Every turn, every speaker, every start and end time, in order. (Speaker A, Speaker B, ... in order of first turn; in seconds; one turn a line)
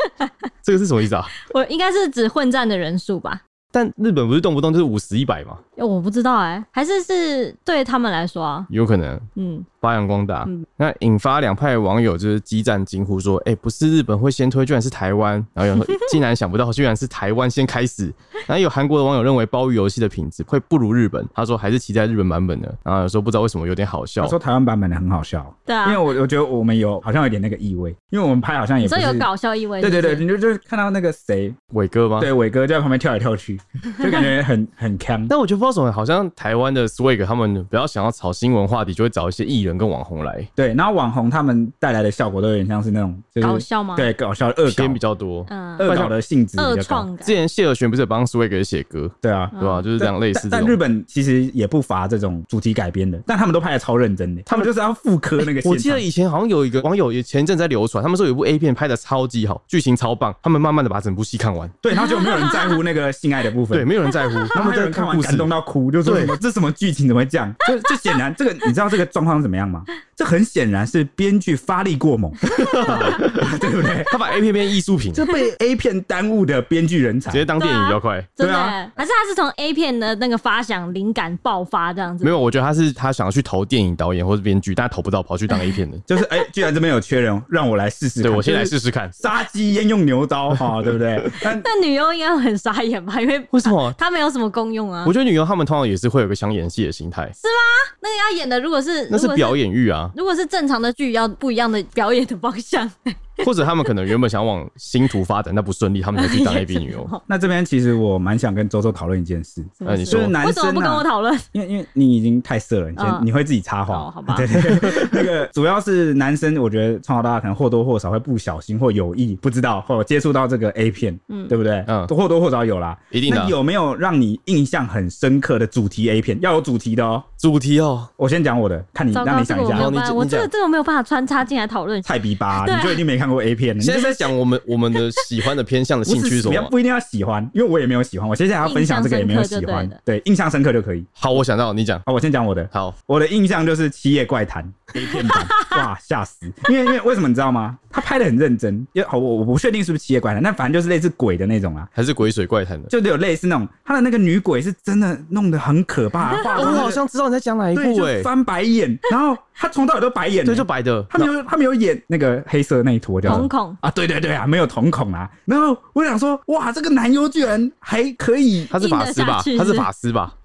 Speaker A: 0.6-1.3
Speaker B: 1.4-3.4
Speaker A: 3.7-5.6
Speaker B: 5.8-8.7
Speaker A: 8.7-9.2
Speaker B: 9.3-9.7
Speaker A: 9.8-24.4
Speaker C: 24.2-29.3
Speaker B: 25.7-26.1
Speaker B: 28.8-30.2
Speaker C: 29.8-31.6
Speaker A: 31.7-32.3
Speaker C: 32.2-35.3
Speaker A: 35.3-40.5
Speaker C: 40.6-45.0
Speaker B: 43.4-44.1
Speaker A: 44.7-46.1
Speaker B: 45.5-45.9
Speaker C: 45.8-47.1
Speaker B: 46.6-47.4
Speaker A: 47.2-50.8
Speaker C: 49.2-56.0
Speaker B: 49.5-49.9
Speaker A: 54.5-54.7
Speaker A: 55.4-61.8
Speaker C: 61.8-63.9
Speaker B: 61.9-62.8
Speaker A: 63.7-65.5
Speaker B: 64.2-64.5
Speaker C: 64.5-74.1
Speaker A: 66.0-66.3
Speaker A: 72.4-73.5
Speaker A: 74.1-75.2
Speaker C: 75.1-77.5
Speaker A: 77.3-78.3
Speaker B: 77.6-82.3
Speaker C: 78.4-78.8
Speaker A: 82.2-86.0
Speaker B: 85.5-85.8
Speaker C: 86.1-91.7
Speaker A: 88.2-89.2
Speaker B: 91.5-95.1
Speaker A: 93.5-94.0
Speaker A: 95.0-97.3
Speaker B: 97.4-99.6
Speaker A: 99.1-100.1
Speaker B: 100.1-103.5
Speaker A: 103.4-107.1
Speaker B: 106.2-107.2
Speaker C: 107.3-127.3
Speaker B: 109.8-111.5
Speaker A: 109.8-110.4
Speaker B: 113.0-113.3
Speaker B: 113.9-114.9
Speaker B: 121.3-121.5
Speaker A: 121.9-122.1
Speaker A: 123.1-123.5
Speaker A: 127.4-128.1
Speaker C: 128.2-129.9
Speaker B: 129.1-133.0
Speaker A: 129.7-130.5
Speaker C: 132.0-134.3
Speaker A: 133.8-136.7
Speaker C: 136.1-141.1
Speaker B: 138.6-140.0
Speaker A: 141.2-142.0
Speaker C: 142.1-151.9
Speaker B: 145.0-145.8
Speaker A: 151.9-152.9
Speaker C: 152.9-157.0
Speaker B: 156.3-156.8
Speaker A: 156.5-158.3
Speaker C: 157.7-168.7
Speaker A: 160.4-161.3
Speaker B: 163.2-163.8
Speaker A: 168.7-170.3
Speaker B: 168.7-169.9